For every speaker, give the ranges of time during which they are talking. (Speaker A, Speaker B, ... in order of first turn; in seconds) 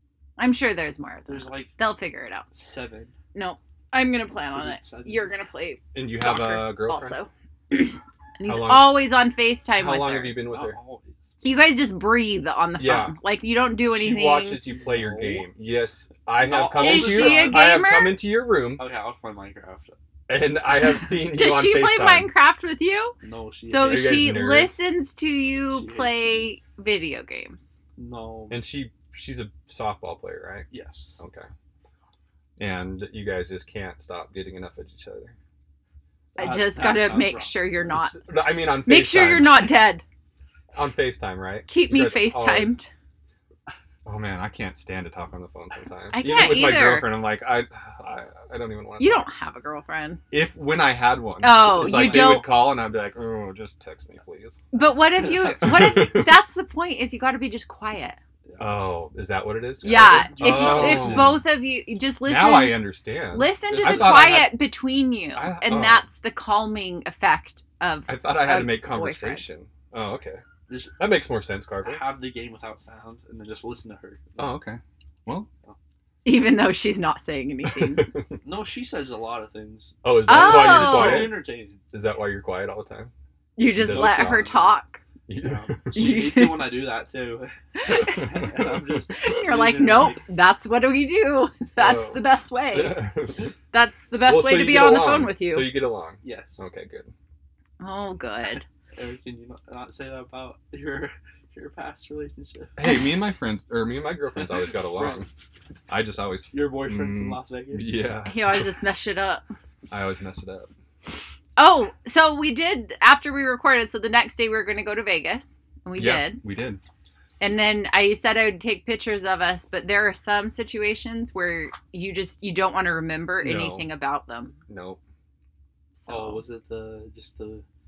Speaker A: 0.4-2.5, 3.3-10.4, 11.4-14.6, 16.8-18.2, 20.9-23.1, 23.7-27.8, 36.4-38.2, 38.8-40.0, 41.7-42.9, 46.1-47.1, 49.0-50.2, 51.4-52.5, 54.7-58.2, 59.8-69.5, 76.2-78.1, 80.3-81.3, 83.6-85.0, 85.9-86.7, 87.8-88.3, 89.1-93.1, 93.7-95.8, 97.8-98.7, 108.3-109.4, 111.6-116.4, 117.4-124.6, 126.0-126.4
Speaker B: 1.3-1.8, 2.5-3.1, 4.5-5.3, 10.5-11.2, 14.6-15.5, 16.4-17.7, 18.8-19.9, 23.2-24.6, 25.7-26.5, 28.0-28.6, 30.7-31.2, 36.4-37.7, 51.6-52.5, 55.1-56.1, 58.5-58.8, 59.9-61.4, 63.7-64.5, 70.7-71.0, 71.8-74.5, 78.4-81.8, 83.8-84.7, 85.4-90.2, 96.2-96.6, 99.0-102.8, 104.4-105.3, 106.5-108.0, 126.1-127.7
Speaker C: 5.9-7.2, 8.5-9.0, 9.8-10.8, 12.8-13.2, 13.9-18.8, 20.3-22.3, 23.8-24.8, 28.5-31.5, 32.6-35.4, 37.9-39.8, 40.7-42.8, 44.0-49.3, 50.3-54.7, 55.6-56.4, 58.6-61.4, 62.2-64.6, 65.3-66.1, 68.1-70.4, 71.0-72.0, 74.4-75.5, 77.7-78.3, 80.0-83.1, 83.7-84.5, 85.3-86.2, 88.1-89.0, 91.8-93.5, 94.3-97.1, 102.8-105.3, 105.9-108.7, 109.9-110.7, 116.0-116.8, 123.4-123.9, 124.7-125.0